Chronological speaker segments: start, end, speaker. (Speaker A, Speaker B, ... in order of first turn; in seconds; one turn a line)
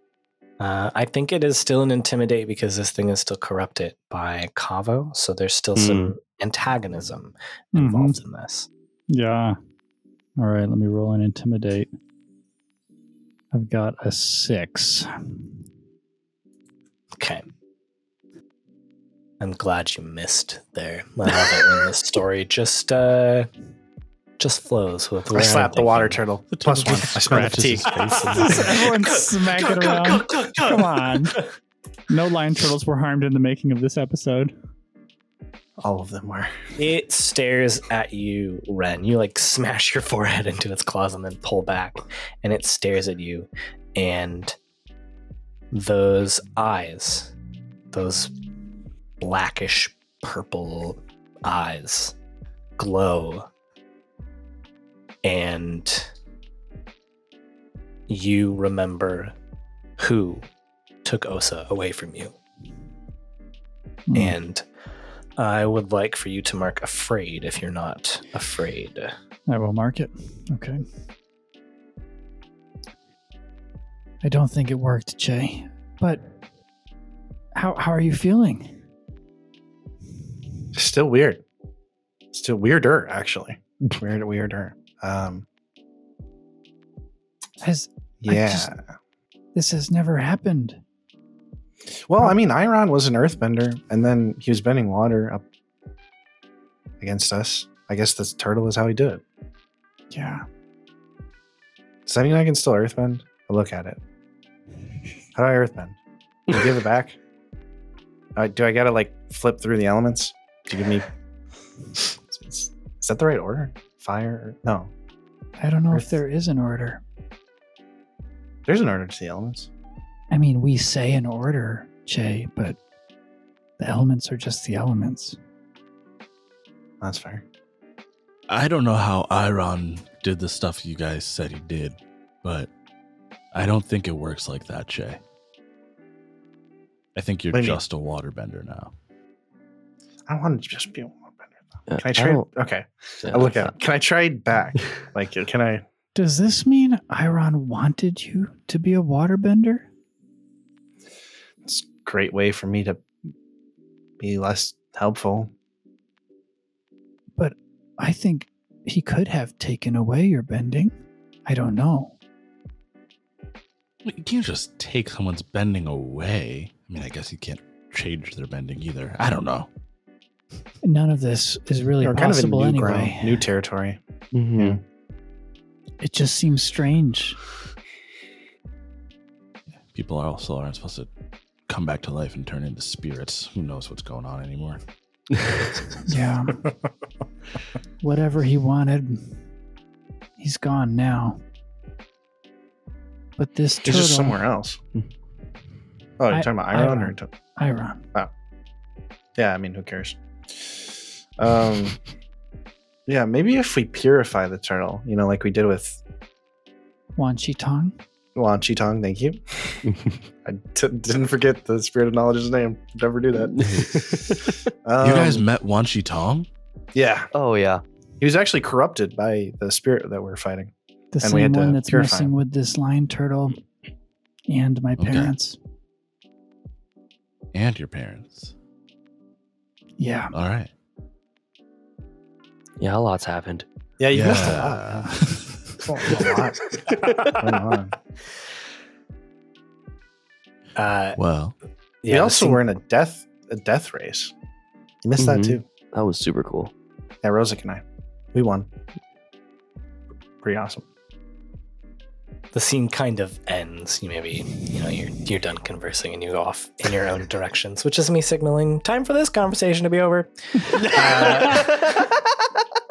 Speaker A: 0.6-8.7
Speaker B: 5.7-6.1
Speaker C: 7.7-8.2
Speaker C: 9.1-9.6
Speaker C: 10.4-11.9
Speaker C: 13.5-15.5
Speaker A: 17.2-17.4
Speaker A: 19.4-23.5
Speaker A: 24.4-26.2
Speaker D: 25.3-28.0
Speaker E: 26.5-28.7
Speaker A: 27.8-31.4
Speaker C: 28.3-31.4
Speaker C: 32.1-34.5
Speaker D: 35.8-36.5
Speaker A: 36.8-44.5
Speaker A: 45.7-47.3
Speaker A: 47.9-48.3
Speaker A: 49.2-52.1
Speaker A: 52.8-53.5
Speaker A: 55.2-56.1
Speaker A: 58.1-59.3
Speaker A: 60.0-60.5
Speaker A: 61.0-62.4
Speaker C: 64.1-64.3
Speaker A: 64.1-64.6
Speaker A: 65.4-69.1
Speaker C: 69.5-70.8
Speaker C: 74.2-76.2
Speaker C: 77.5-78.8
Speaker D: 80.7-81.4
Speaker D: 82.3-85.5
Speaker C: 87.6-88.7
Speaker D: 88.2-88.8
Speaker C: 89.5-90.8
Speaker D: 92.1-95.4
Speaker D: 97.0-99.2
Speaker C: 100.1-100.4
Speaker D: 102.0-104.0
Speaker D: 105.3-107.2
Speaker D: 108.3-111.1
Speaker D: 112.3-114.9
Speaker C: 115.6-117.0
Speaker D: 118.7-119.7
Speaker C: 120.3-122.8
Speaker C: 123.8-125.4
Speaker D: 127.0-127.4
Speaker E: 128.5-132.7
Speaker E: 133.5-135.2
Speaker E: 137.1-138.9
Speaker D: 137.5-137.8
Speaker D: 140.3-145.8
Speaker B: 141.9-142.5
Speaker B: 143.2-143.7
Speaker C: 146.1-149.9
Speaker D: 151.6-153.0
Speaker D: 154.2-155.5
Speaker C: 157.4-162.2
Speaker E: 164.0-169.7
Speaker C: 170.8-173.4
Speaker D: 172.0-174.0
Speaker B: 174.3-174.8
Speaker D: 174.6-174.8
Speaker C: 176.0-177.4
Speaker E: 179.8-181.1
Speaker E: 181.7-184.8
Speaker C: 186.1-186.6
Speaker C: 188.0-189.5
Speaker C: 190.4-191.4
Speaker C: 193.4-194.4
Speaker D: 193.8-194.8
Speaker D: 196.2-197.3
Speaker C: 196.3-198.1
Speaker D: 199.3-202.0
Speaker D: 203.1-206.0
Speaker C: 207.2-208.0
Speaker D: 208.3-209.9
Speaker D: 210.4-214.1
Speaker B: 213.5-214.7
Speaker D: 214.8-215.4
Speaker E: 215.0-216.5
Speaker D: 216.9-217.3
Speaker B: 217.3-217.8
Speaker D: 218.2-222.3
Speaker C: 221.1-223.6
Speaker C: 224.5-225.6
Speaker E: 225.0-225.3
Speaker E: 227.5-228.5
Speaker C: 230.0-230.3
Speaker E: 230.3-230.7
Speaker B: 232.8-233.7
Speaker D: 234.0-235.2
Speaker E: 234.1-235.5
Speaker A: 234.2-234.7
Speaker D: 235.8-237.9
Speaker B: 236.9-237.3
Speaker A: 240.8-241.2
Speaker E: 241.2-241.5
Speaker A: 242.0-242.6
Speaker D: 242.1-244.3
Speaker D: 245.0-245.6
Speaker B: 245.2-246.7
Speaker D: 247.2-248.7
Speaker D: 250.4-250.8
Speaker A: 252.5-262.0
Speaker B: 260.9-261.9